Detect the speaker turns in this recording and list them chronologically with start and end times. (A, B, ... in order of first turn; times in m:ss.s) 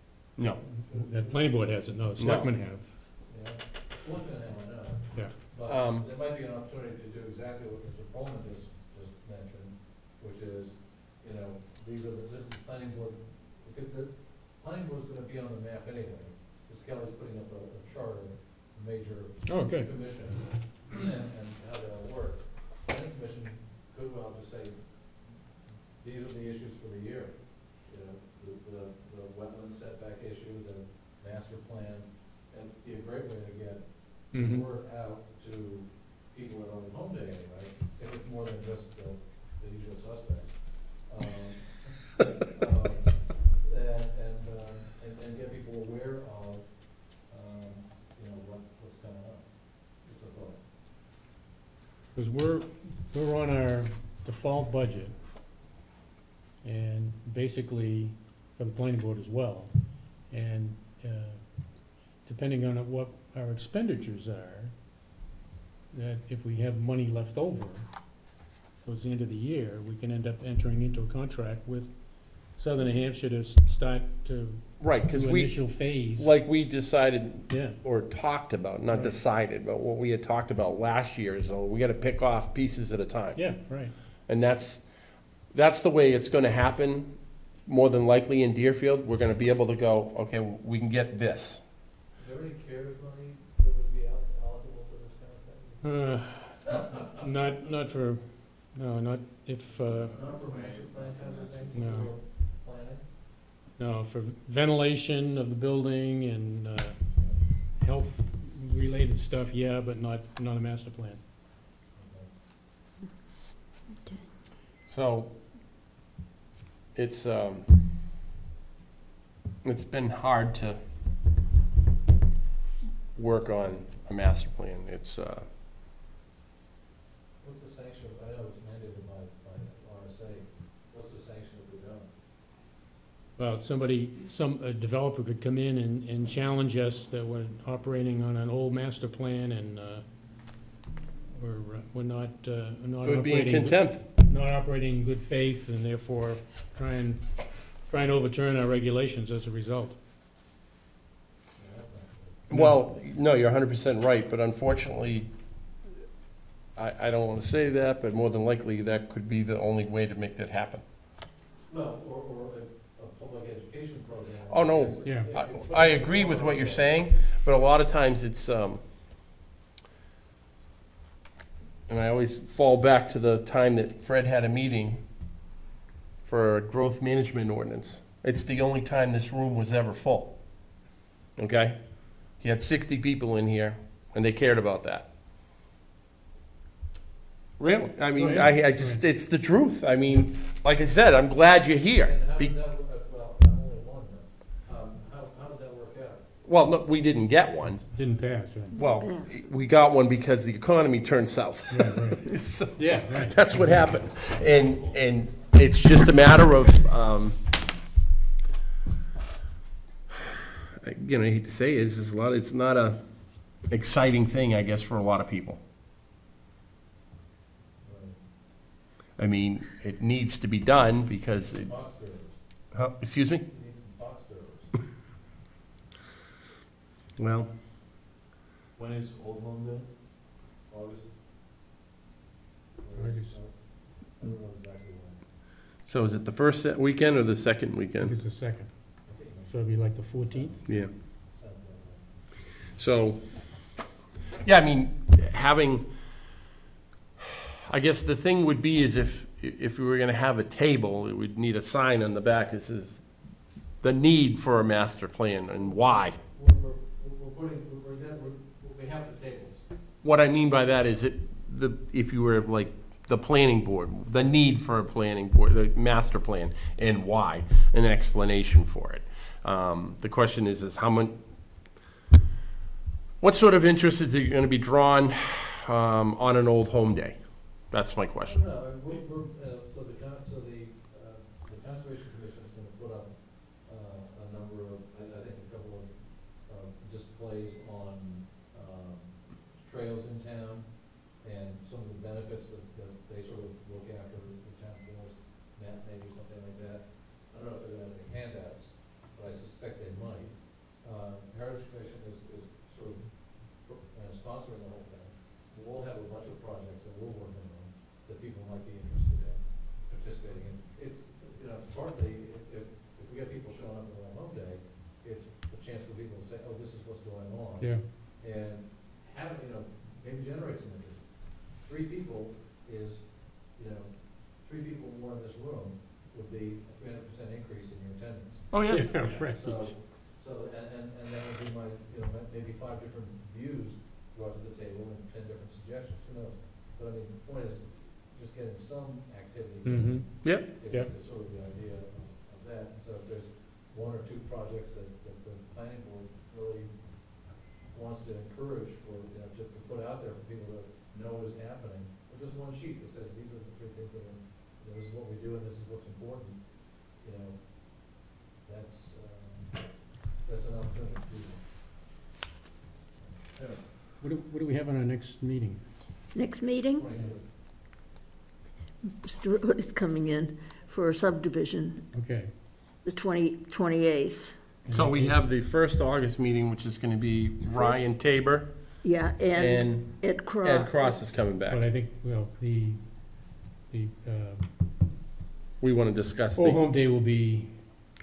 0:00.4-0:00.6 A
0:00.6-0:50.6 B
0:00.9-0:02.9 C
0:02.2-0:02.6 A
0:05.6-0:06.1 A
0:19.5-0:20.2 C
0:34.3-0:34.7 C
0:52.1-0:55.2 C
0:56.6-1:04.9 C
1:05.9-1:08.3 C
1:08.8-1:16.3 C
1:14.8-1:31.6 A
1:17.5-1:17.8 C
1:18.9-1:19.2 C
1:23.3-1:23.9 C
1:32.2-1:37.6 B
1:35.8-1:40.2 C
1:39.7-1:43.1 B
1:40.3-1:42.0 D
1:41.7-1:42.1 C
1:43.8-1:51.2 C
1:47.1-1:47.4 B
1:51.9-1:52.4 B
1:54.9-1:55.4 A
1:56.9-1:57.7 A
1:59.6-2:00.8 A
2:03.1-2:05.5 A
2:07.4-2:12.1 B
2:13.4-2:20.1 C
2:21.4-2:30.0 C
2:23.0-2:24.0 A
2:31.5-2:32.5 B
2:32.5-2:35.3 A
2:32.5-2:32.9 C
2:36.7-2:40.8 A
2:41.7-2:47.0 B
2:44.5-2:49.2 A
2:45.0-2:45.5 C
2:51.9-2:55.0 A
2:56.2-3:00.8 A
3:01.4-3:05.1 A
3:07.6-3:12.6 A
3:07.6-3:09.0 C
3:12.0-3:16.3 B
3:16.4-3:17.9 A
3:17.9-3:18.8 C
3:18.7-3:27.4 A
3:18.7-3:19.4 E
3:21.7-3:23.9 C
3:30.8-3:35.6 A
3:37.8-3:38.2 B
3:39.2-3:41.9 A
3:41.5-3:42.9 B
3:42.7-3:43.5 A
3:43.4-3:44.8 B
3:47.2-3:47.5 A
3:48.8-3:50.0 D
3:50.6-3:51.2 B
3:52.8-3:55.3 B
3:53.0-3:53.4 C
3:55.8-3:58.2 A
3:58.0-4:00.8 C
3:59.0-4:02.7 B
4:00.7-4:00.9 A
4:02.7-4:03.8 A
4:04.4-4:06.4 A
4:07.2-4:16.2 A
4:15.5-4:19.6 B
4:20.0-4:31.7 A
4:33.2-4:38.5 A
4:38.2-6:01.5 B
5:28.5-5:29.1 A
5:28.7-5:29.7 C
5:39.6-5:40.9 C
6:03.0-6:03.7 B
6:04.0-6:05.7 C
6:06.1-6:06.9 E
6:06.7-6:07.3 B
6:08.8-6:14.5 E
6:11.9-6:12.3 C
6:14.6-6:15.2 C
6:14.7-6:18.8 A
6:17.5-6:17.8 E
6:18.8-6:21.0 E
6:19.3-6:21.7 A
6:21.4-6:24.5 C
6:25.6-6:26.7 A
6:26.4-6:27.9 C